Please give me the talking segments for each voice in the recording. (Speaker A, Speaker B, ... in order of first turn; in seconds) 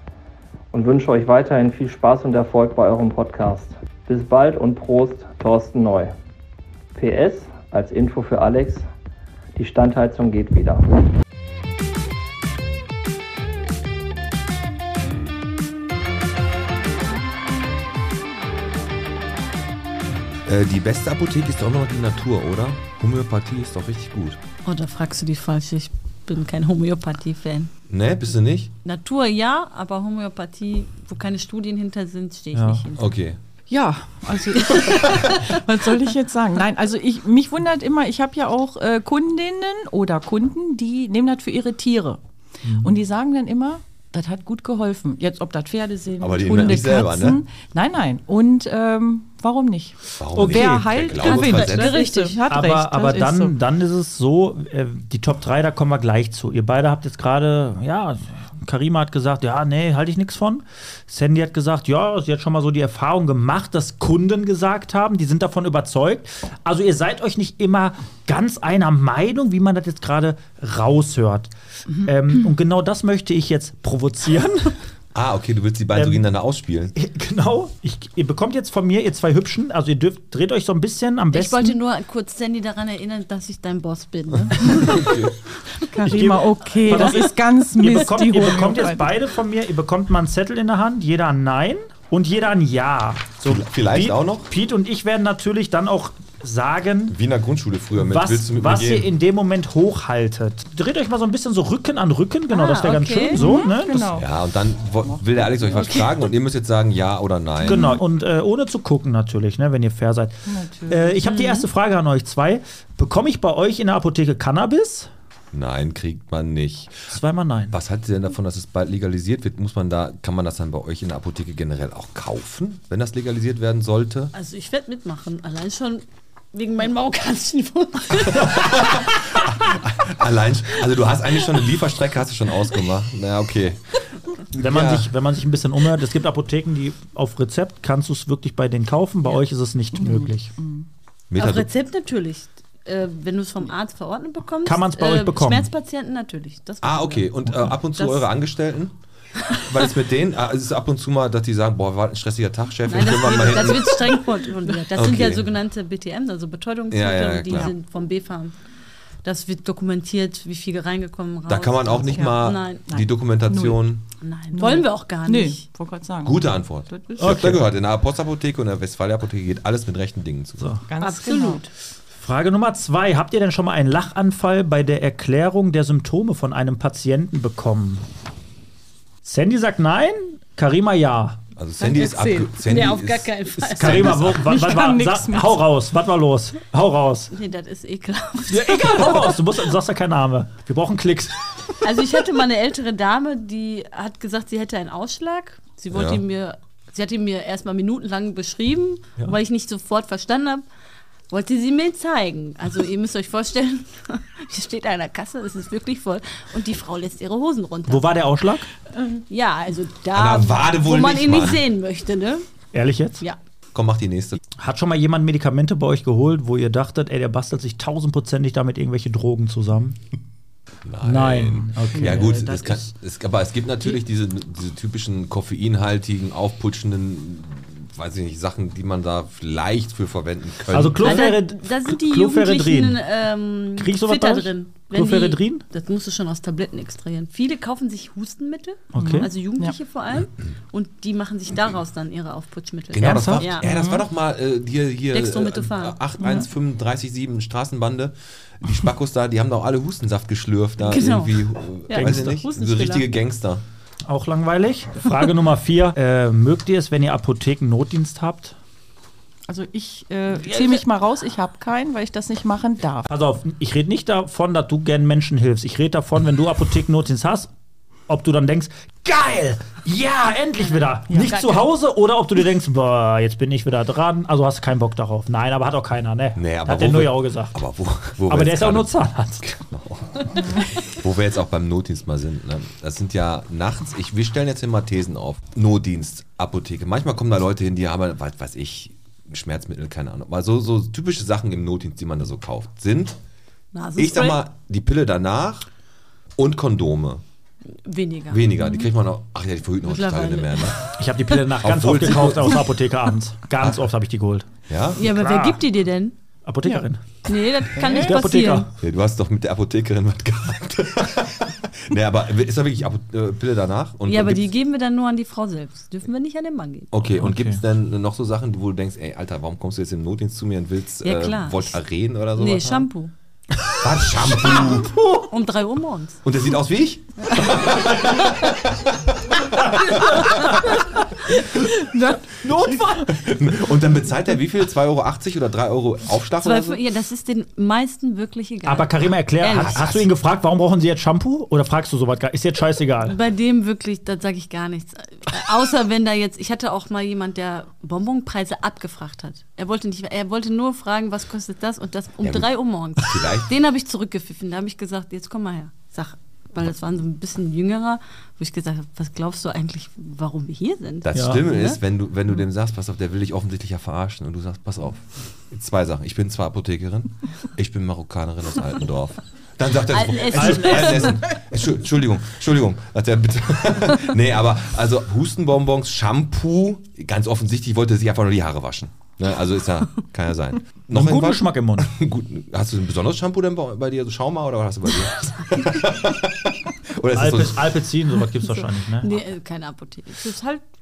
Speaker A: 0.7-6.1, 7.0-8.9, 9.6-10.9
Speaker B: 20.4-24.4, 27.9-28.7, 33.0-33.4, 46.2-47.4, 50.2-52.0, 75.1-76.9, 84.6-85.4, 93.4-94.5, 97.1-99.1, 104.2-107.9, 115.5-117.1, 117.7-124.3, 128.2-135.1, 141.3-141.7, 146.8-149.0, 149.5-154.2, 154.9-155.5, 156.9-157.7, 161.5-164.0, 166.2-170.8, 181.6-184.5, 195.9-196.2, 210.1-211.7, 213.7-214.4, 220.8-231.3, 242.9-253.6, 276.4-293.2, 294.0-295.7, 296.4-297.2, 298.3-300.9, 301.6-302.7, 304.7-305.0, 308.8-314.5, 316.9-322.9, 323.8-325.0, 326.2-330.7, 333.1-336.8, 339.6-340.1, 352.2-353.5, 361.0-387.8
Speaker C: 24.6-27.7, 28.8-33.0, 34.6-35.6, 51.2-52.4, 81.3-85.2, 86.9-87.2, 102.5-103.5, 105.7-106.1, 111.3-111.6, 124.3-129.0, 141.4-147.3, 147.9-148.3, 152.9-158.6, 159.2-162.8, 164.2-165.6, 171.0-171.7, 182.4-184.3, 187.3-189.4, 191.8-200.7, 201.3-208.1, 209.3-212.5, 231.0-243.7, 245.1-246.0, 250.8-253.1, 271.2-271.6, 293.7-294.4, 297.9-298.9, 299.8-300.9, 304.9-306.1, 307.3-308.7, 314.1-317.0, 321.0-321.8, 322.4-323.1, 325.2-326.2, 336.4-339.8, 343.0-361.8, 369.9-371.3, 389.0-390.6
Speaker D: 32.5-32.8, 42.6-43.0, 50.4-50.9, 52.5-74.8, 76.0-76.2, 76.9-81.8, 86.0-97.2, 98.0-104.2, 107.7-115.1, 117.1-117.8, 134.5-140.5, 144.7-145.7, 167.2-167.6, 172.1-178.1, 179.2-181.4, 183.7-187.3, 188.5-191.5, 207.9-208.7, 212.7-213.2, 214.6-220.0, 221.0-222.4, 230.7-233.0, 233.8-235.6, 238.9-239.3, 243.0-243.5, 251.9-252.4, 254.1-258.6, 260.3-260.8, 263.1-267.5, 268.1-277.6, 278.3-279.6, 301.0-305.6, 306.5-307.2, 307.8-308.7, 317.1-317.6, 324.4-325.2, 329.9-331.7, 332.3-333.1, 338.7-343.2, 361.1-361.4, 370.3-371.2, 380.9-381.9, 387.1-389.1
Speaker E: 33.7-42.2, 42.8-53.6, 85.8-89.1, 103.3-104.3, 105.1-105.6, 107.7-108.0, 110.5-111.2, 139.9-140.9, 162.1-163.8, 164.5-167.4, 170.9-171.7, 181.8-182.5, 184.3-185.6, 221.9-222.8, 239.0-239.8, 243.6-244.1, 246.2-246.5, 259.5-263.1, 307.8-308.1, 331.8-332.2